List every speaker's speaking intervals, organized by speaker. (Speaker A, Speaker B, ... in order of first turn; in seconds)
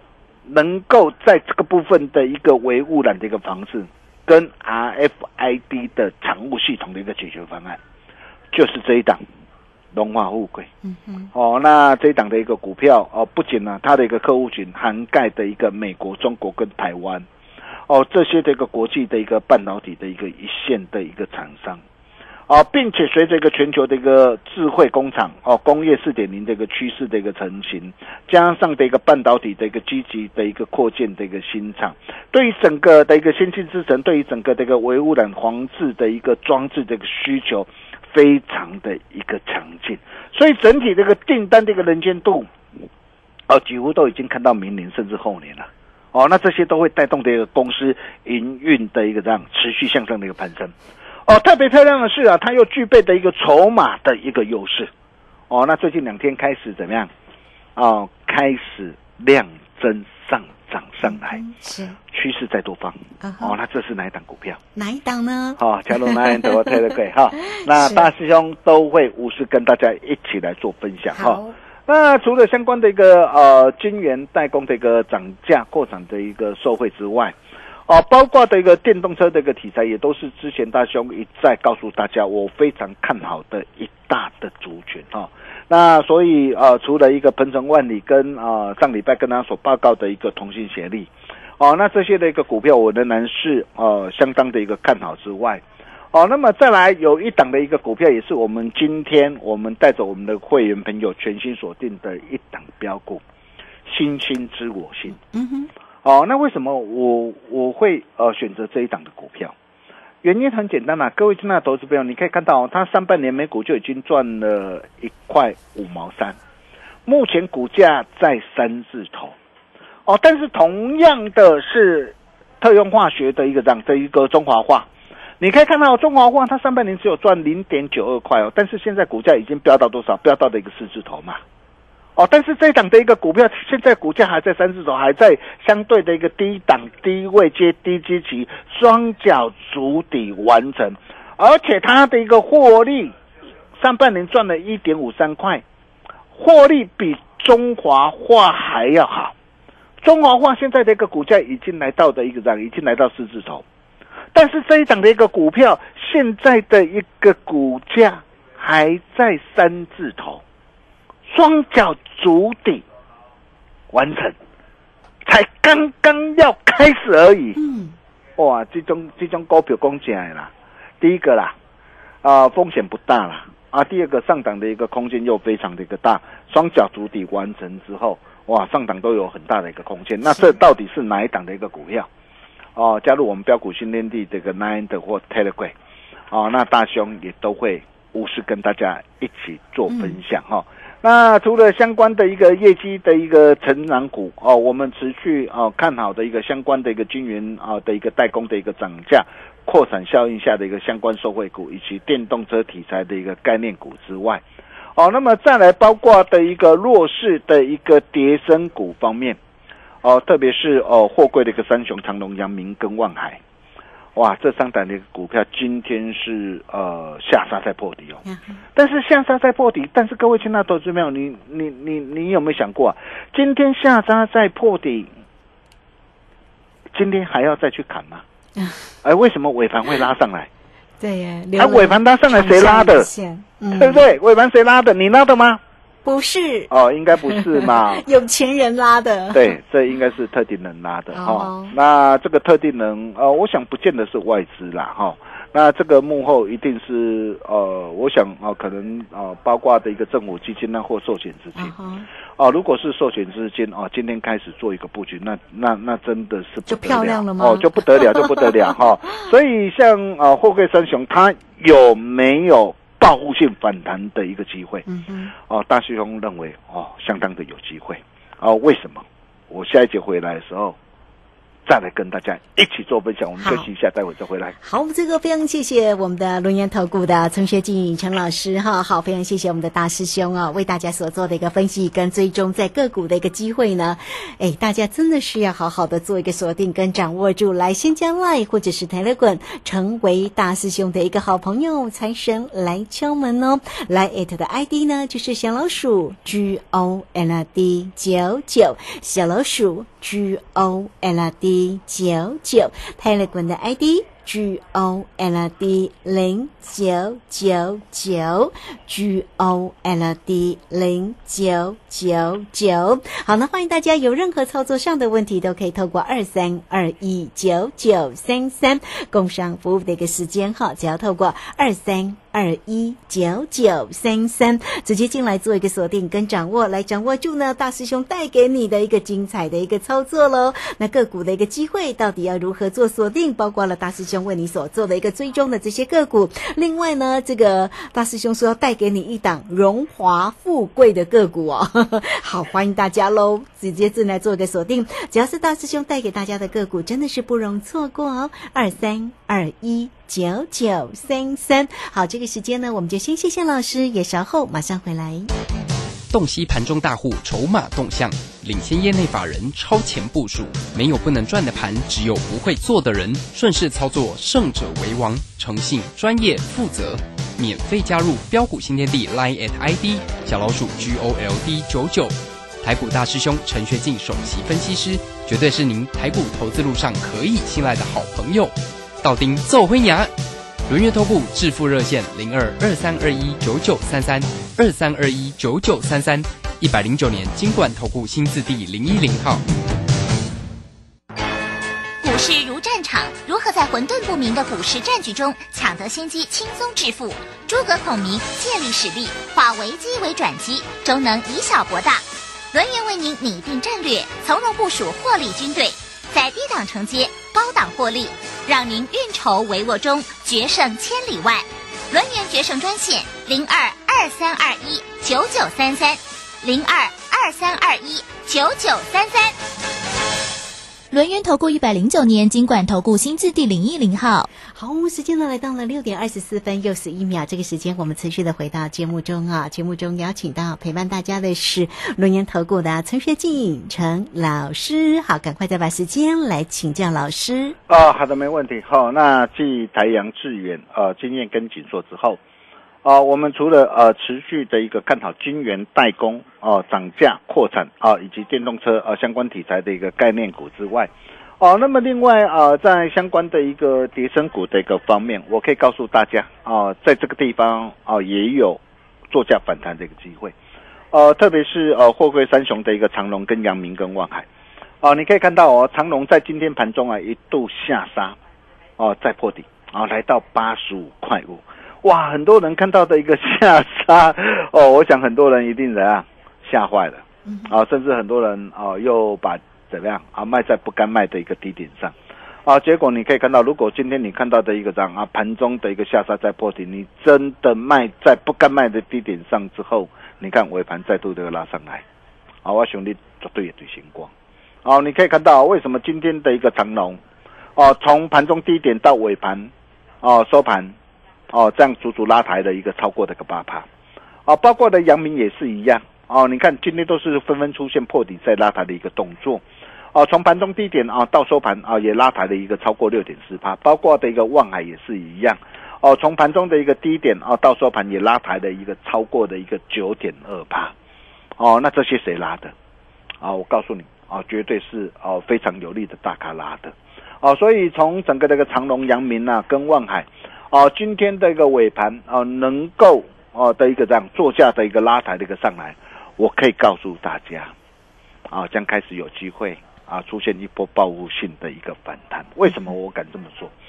Speaker A: 0.5-7.8, 8.5-9.2, 9.9-10.7, 11.3-17.2, 17.9-21.8, 22.5-42.5, 43.5-50.7, 51.3-54.9, 55.5-57.1, 57.8-61.4, 62.1-64.6, 65.6-77.3, 77.9-103.2, 103.9-105.2, 106.0-109.5, 110.2-116.4, 117.0-119.3, 120.0-124.9, 125.4-131.4, 132.2-143.1, 143.8-145.6, 146.3-149.3, 150.0-153.6, 154.3-160.4, 161.3-162.8, 163.9-164.3, 165.2-167.6, 168.4-171.5, 172.2-182.1, 182.8-185.7, 186.3-204.4, 204.9-209.4, 210.0-213.4, 214.1-218.2, 218.7-225.1, 226.9-228.2, 229.0-230.5, 231.6-233.1, 233.8-235.6, 236.7-238.1, 239.3-251.7, 252.4-264.8, 265.5-270.8, 271.6-274.6, 437.7-442.2, 442.8-458.6, 459.1-460.3, 460.9-464.3, 464.8-468.2, 468.8-481.9, 482.4-491.8, 492.4-494.1, 494.6-497.0, 497.6-499.5, 500.0-500.7, 501.3-503.6, 504.2-509.4, 509.9-520.7, 521.4-522.5, 523.2-537.5, 538.3-543.5
Speaker B: 10.8-11.3, 61.0-62.0, 63.2-63.5, 64.7-66.8, 67.5-68.1, 71.1-71.5, 105.2-105.7, 167.6-167.9, 180.3-180.6, 189.9-190.2, 218.2-218.6, 228.6-228.8, 231.0-234.0, 236.0-239.6, 241.1-241.8, 251.5-252.1, 256.7-258.7, 264.9-265.3, 273.4-273.7, 274.6-355.3, 424.4-437.6
Speaker C: 356.1-380.1, 380.7-389.4
Speaker D: 392.0-419.3
Speaker E: 420.9-424.3